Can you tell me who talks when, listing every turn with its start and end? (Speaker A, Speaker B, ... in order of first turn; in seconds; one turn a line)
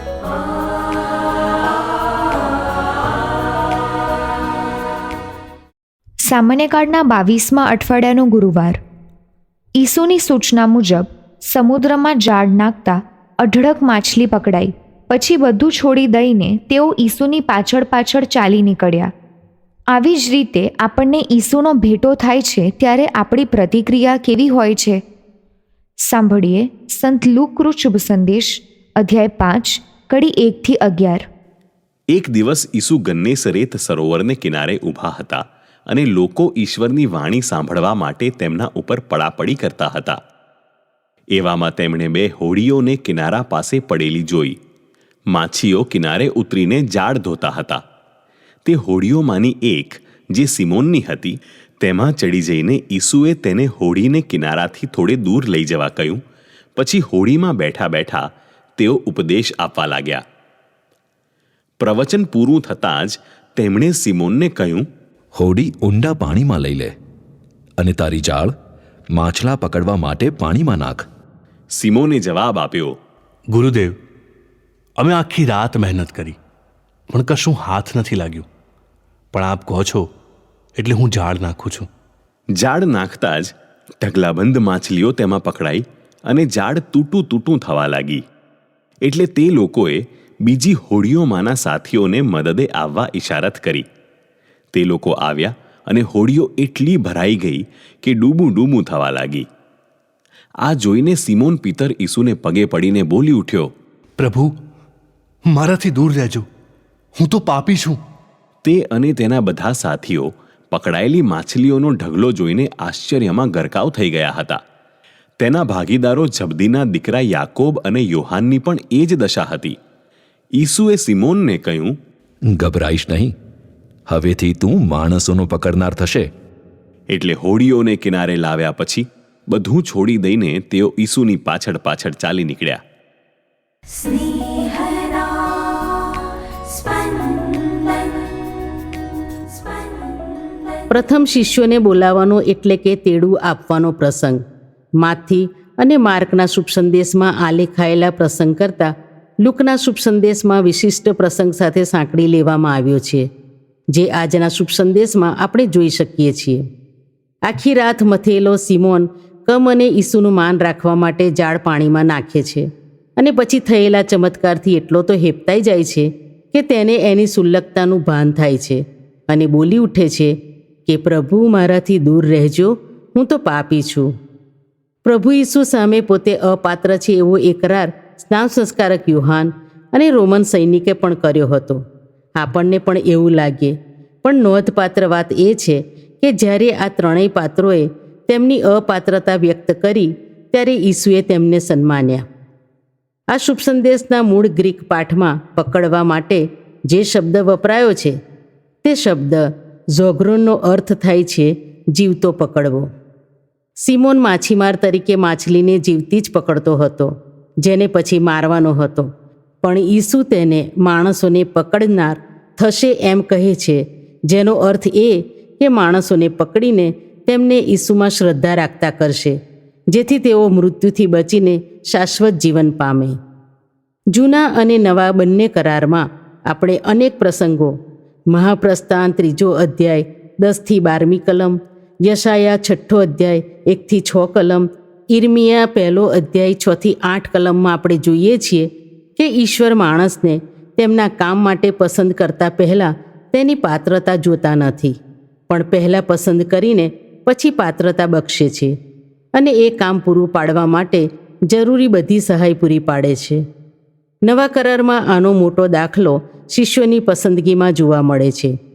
Speaker A: 6.2-8.8
Speaker A: 9.8-19.1
Speaker A: 19.9-25.0
Speaker A: 26.1-31.2
Speaker B: 32.1-40.2
Speaker B: 41.3-44.5
Speaker B: 45.3-47.8
Speaker B: 48.6-56.2
Speaker B: 56.8-58.2
Speaker B: 58.8-60.2
Speaker B: 61.8-64.8
Speaker C: 65.3-66.9
Speaker C: 67.8-68.5
Speaker C: 69.1-71.0
Speaker B: 71.7-72.9
Speaker D: 73.5-74.0
Speaker D: 75.0-76.4
Speaker D: 77.1-78.5
Speaker D: 79.3-80.1
Speaker D: 80.8-81.9
Speaker B: 82.6-88.2
Speaker B: 89.0-93.8
Speaker B: 94.7-99.4
Speaker B: 100.6-103.7
Speaker D: 104.2-104.5
Speaker D: 105.5-106.5
Speaker D: 107.2-108.0
Speaker B: 108.6-114.6
Speaker B: 115.4-119.7
Speaker B: 120.6-121.9
Speaker C: 122.6-123.3
Speaker C: 124.1-126.3
Speaker B: 127.1-132.8
Speaker E: 140.9-144.4
Speaker E: 145.0-148.9
Speaker E: 149.4-153.3
Speaker E: 153.9-156.6
Speaker E: 157.4-170.3
Speaker E: 170.8-174.1
Speaker E: 175.0-181.8
Speaker E: 182.4-192.2
Speaker E: 193.3-198.2
Speaker E: 198.8-202.9
Speaker E: 203.8-209.1
Speaker E: 209.6-219.4
Speaker E: 219.9-223.2
Speaker E: 224.1-227.7
Speaker E: 228.3-245.0
Speaker E: 245.5-248.7
Speaker E: 249.3-253.4
Speaker E: 254.2-258.5